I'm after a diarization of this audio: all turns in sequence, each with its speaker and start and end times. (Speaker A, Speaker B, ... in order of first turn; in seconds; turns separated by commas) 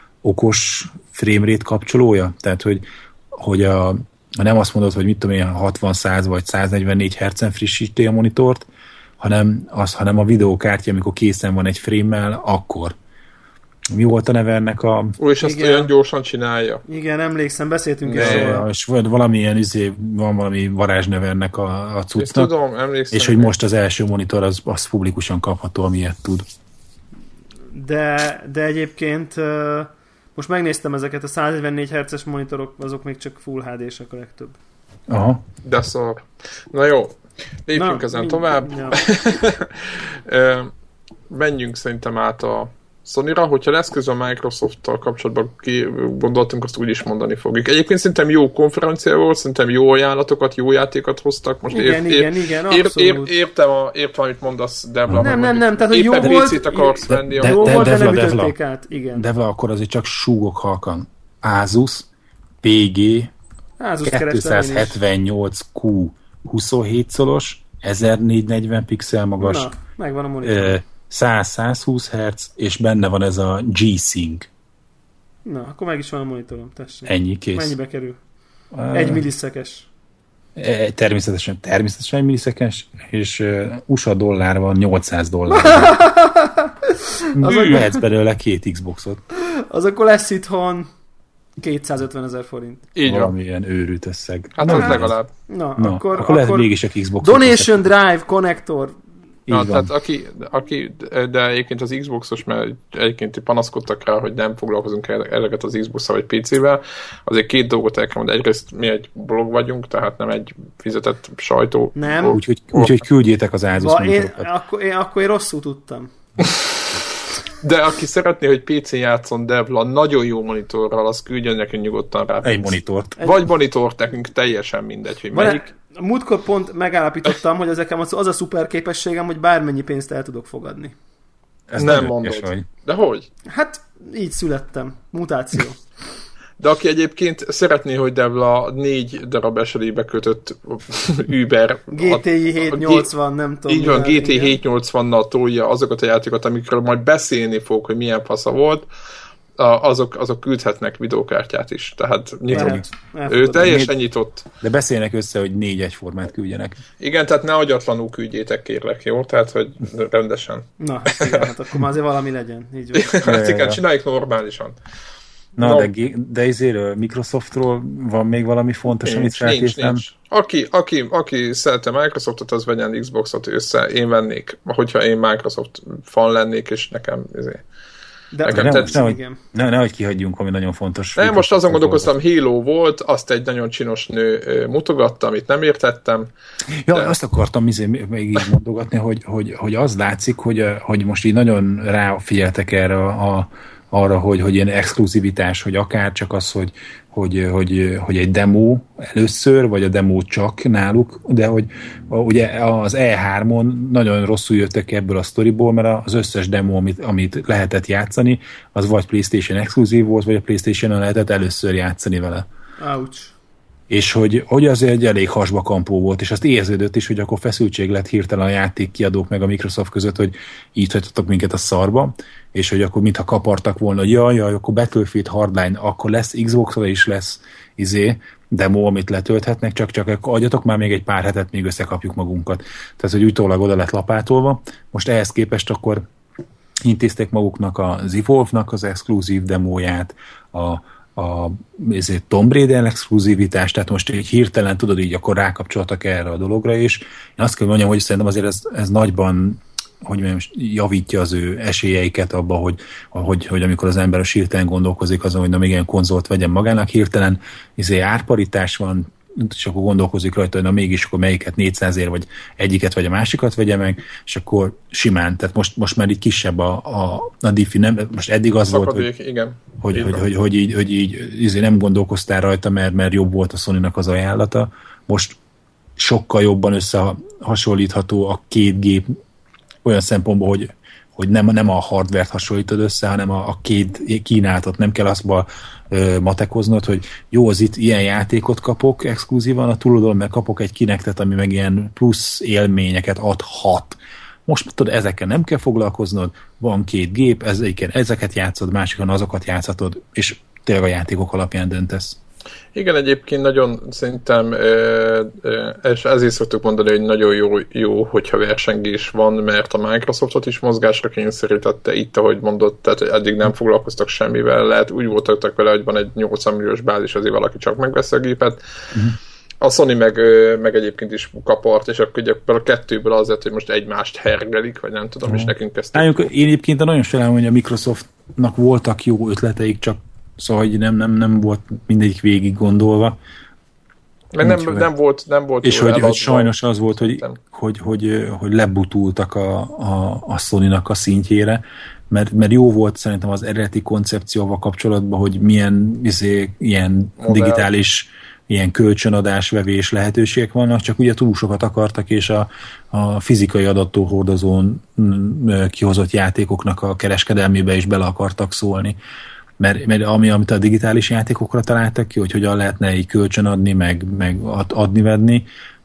Speaker A: 0.2-8.7, Speaker A: 9.2-12.9, Speaker A: 13.9-15.2, Speaker B: 15.2-16.8, Speaker C: 15.4-15.9, Speaker C: 16.9-18.6, Speaker B: 18.1-18.6, Speaker A: 18.1-22.5, Speaker B: 22.1-23.5, Speaker A: 23.1-26.4, Speaker C: 27.7-34.6, Speaker A: 35.1-35.4, Speaker B: 35.6-40.7, Speaker C: 37.8-39.0, Speaker B: 41.3-57.9, Speaker C: 51.7-53.3, Speaker A: 55.1-55.3, Speaker C: 55.2-59.2, Speaker A: 57.2-58.5, Speaker A: 59.1-62.1, Speaker A: 62.6-63.3, Speaker C: 63.8-65.0, Speaker A: 64.0-69.7, Speaker C: 69.4-70.8, Speaker A: 70.4-74.5, Speaker C: 75.4-78.2, Speaker A: 77.0-77.8, Speaker A: 78.7-79.2, Speaker C: 78.9-79.9, Speaker A: 80.5-86.0, Speaker C: 85.5-88.0, Speaker A: 87.3-89.2, Speaker B: 87.4-87.9, Speaker C: 89.3-90.9, Speaker C: 91.6-92.8, Speaker B: 92.9-93.3, Speaker A: 93.0-95.2, Speaker B: 94.5-95.3, Speaker C: 94.7-99.0, Speaker A: 95.8-97.9, Speaker A: 99.5-99.9, Speaker B: 99.5-113.0, Speaker C: 112.0-112.4, Speaker A: 112.3-114.5, Speaker C: 113.8-116.1, Speaker B: 117.6-125.7, Speaker A: 122.4-123.2, Speaker C: 125.3-130.9, Speaker A: 131.7-132.6, Speaker B: 131.8-133.3, Speaker C: 133.5-135.8, Speaker B: 136.6-143.1, Speaker C: 141.9-144.6, Speaker B: 143.7-148.9, Speaker B: 149.6-154.4, Speaker A: 152.5-152.8, Speaker C: 152.5-153.9, Speaker A: 154.6-156.8, Speaker B: 157.0-161.5, Speaker C: 160.8-163.2, Speaker B: 162.9-164.8, Speaker A: 163.2-163.8, Speaker A: 165.6-170.0, Speaker B: 165.6-165.9, Speaker B: 169.0-177.6, Speaker C: 178.3-179.4, Speaker B: 178.4-179.1, Speaker A: 178.5-182.1, Speaker B: 181.2-186.3, Speaker A: 186.7-212.5, Speaker B: 186.9-187.1, Speaker C: 212.8-213.3, Speaker A: 213.9-236.0, Speaker A: 236.8-269.1, Speaker B: 268.7-270.2, Speaker A: 269.8-275.4, Speaker A: 276.0-279.2, Speaker A: 279.8-302.2, Speaker B: 302.7-318.6, Speaker B: 319.6-326.2, Speaker A: 325.3-333.2, Speaker B: 334.3-337.4, Speaker A: 334.4-334.9, Speaker A: 335.6-358.9, Speaker B: 347.2-347.7, Speaker A: 359.6-365.4